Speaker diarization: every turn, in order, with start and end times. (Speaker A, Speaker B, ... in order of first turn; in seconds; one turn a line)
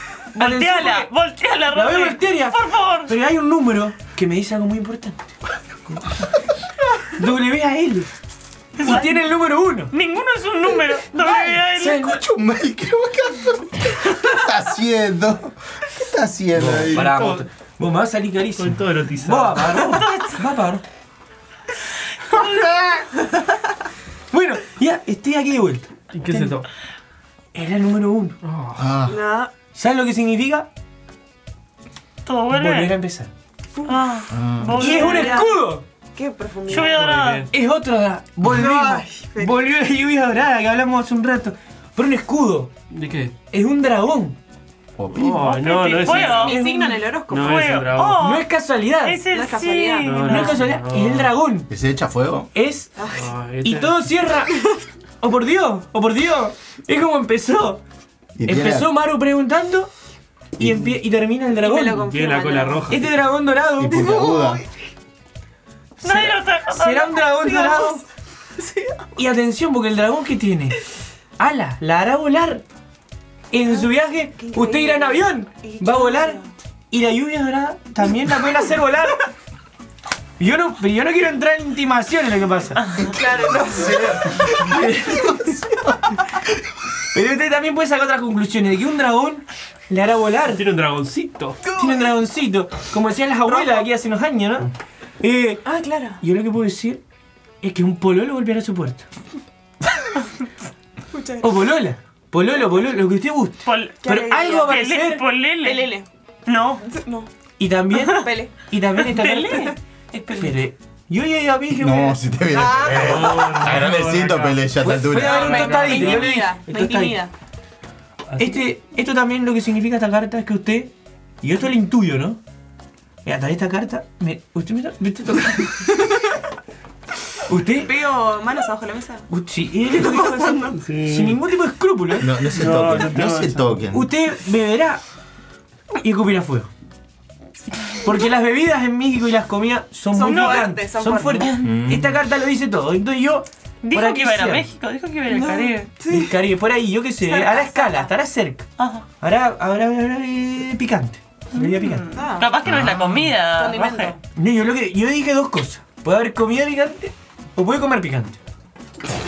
Speaker A: 0.3-1.1
Speaker B: 0.3-3.1
Speaker A: 1.7-5.4
Speaker A: 5.9-6.2
Speaker A: 7.1-8.1
Speaker B: 8.8-9.2
Speaker A: 8.8-9.9
Speaker B: 9.9-12.1
Speaker A: 11.2-12.2
Speaker C: 11.9-17.2
Speaker A: 16.5-20.8
Speaker D: 16.9-17.5
Speaker D: 18.6-19.8
Speaker B: 19.8-20.4
Speaker B: 22.3-22.6
Speaker A: 24.3-26.6
Speaker D: 26.1-26.7
Speaker A: 27.5-28.4
Speaker D: 28.4-29.0
Speaker C: 28.8-29.2
Speaker E: 29.1-29.5
Speaker A: 29.7-30.7
Speaker B: 32.2-32.9
Speaker A: 32.5-33.3
Speaker B: 33.9-35.5
Speaker C: 34.3-34.8
Speaker E: 34.7-35.6
Speaker A: 34.7-35.9
Speaker E: 36.1-37.1
Speaker B: 36.7-37.5
Speaker D: 36.7-37.5
Speaker A: 37.5-42.7
Speaker E: 38.5-39.6
Speaker D: 42.9-43.4
Speaker A: 43.5-44.4
Speaker C: 45.0-45.6
Speaker D: 45.1-46.6
Speaker B: 45.5-46.6
Speaker A: 46.0-47.1
Speaker E: 46.2-47.7
Speaker D: 47.3-48.4
Speaker B: 47.3-48.5
Speaker A: 48.2-49.2
Speaker B: 49.0-50.6
Speaker E: 49.3-50.4
Speaker D: 50.0-51.3
Speaker A: 50.2-51.7
Speaker C: 51.7-52.5
Speaker A: 52.5-52.9
Speaker E: 53.0-53.3
Speaker D: 53.1-54.0
Speaker A: 53.6-54.6
Speaker A: 55.2-57.8
Speaker C: 58.4-58.9
Speaker A: 58.5-59.9
Speaker C: 60.6-60.9
Speaker A: 60.6-62.1
Speaker E: 61.6-63.0
Speaker D: 62.0-63.1
Speaker A: 62.9-64.1
Speaker C: 63.8-64.7
Speaker E: 63.9-64.7
Speaker A: 66.0-68.0
Speaker B: 66.0-67.6
Speaker E: 67.4-68.0
Speaker E: 68.6-69.0
Speaker A: 69.2-70.8
Speaker A: 71.4-72.7
Speaker A: 73.5-76.4
Speaker E: 73.7-76.5
Speaker A: 76.9-79.3
Speaker A: 80.4-82.9
Speaker B: 82.8-83.1
Speaker C: 83.0-85.9
Speaker E: 83.0-84.8
Speaker A: 84.4-85.4
Speaker A: 87.1-90.7
Speaker D: 90.5-91.6
Speaker A: 91.7-95.7
Speaker E: 91.8-92.1
Speaker E: 93.5-93.9
Speaker E: 95.7-96.2
Speaker A: 96.2-97.0
Speaker A: 97.6-99.1
Speaker E: 101.1-101.6
Speaker A: 101.4-105.2
Speaker B: 103.7-105.9
Speaker E: 104.0-104.8
Speaker E: 105.6-106.1
Speaker B: 106.5-106.8
Speaker E: 106.8-107.3
Speaker A: 107.6-109.8
Speaker E: 108.1-108.5
Speaker B: 109.1-110.6
Speaker A: 110.3-112.2
Speaker C: 111.7-115.5
Speaker E: 112.5-113.7
Speaker D: 112.8-114.8
Speaker A: 114.8-117.2
Speaker E: 115.1-117.3
Speaker D: 115.4-116.2
Speaker B: 115.5-116.0
Speaker D: 118.3-118.6
Speaker A: 118.4-122.4
Speaker A: 123.2-126.0
Speaker A: 127.5-128.0
Speaker E: 127.8-129.3
Speaker A: 129.3-133.0
Speaker E: 129.9-130.8
Speaker D: 130.8-131.4
Speaker C: 132.2-134.1
Speaker D: 132.5-133.8
Speaker A: 133.9-135.0
Speaker A: 135.9-136.7
Speaker A: 138.0-144.7
Speaker E: 140.1-141.7
Speaker B: 140.3-140.7
Speaker C: 141.6-142.2
Speaker B: 143.8-145.9
Speaker E: 145.3-146.3
Speaker A: 146.1-148.7
Speaker E: 147.2-148.1
Speaker B: 148.8-149.1
Speaker A: 149.2-152.1
Speaker B: 151.5-154.2
Speaker E: 152.1-152.6
Speaker C: 152.7-153.3
Speaker E: 153.5-154.2
Speaker A: 154.3-158.4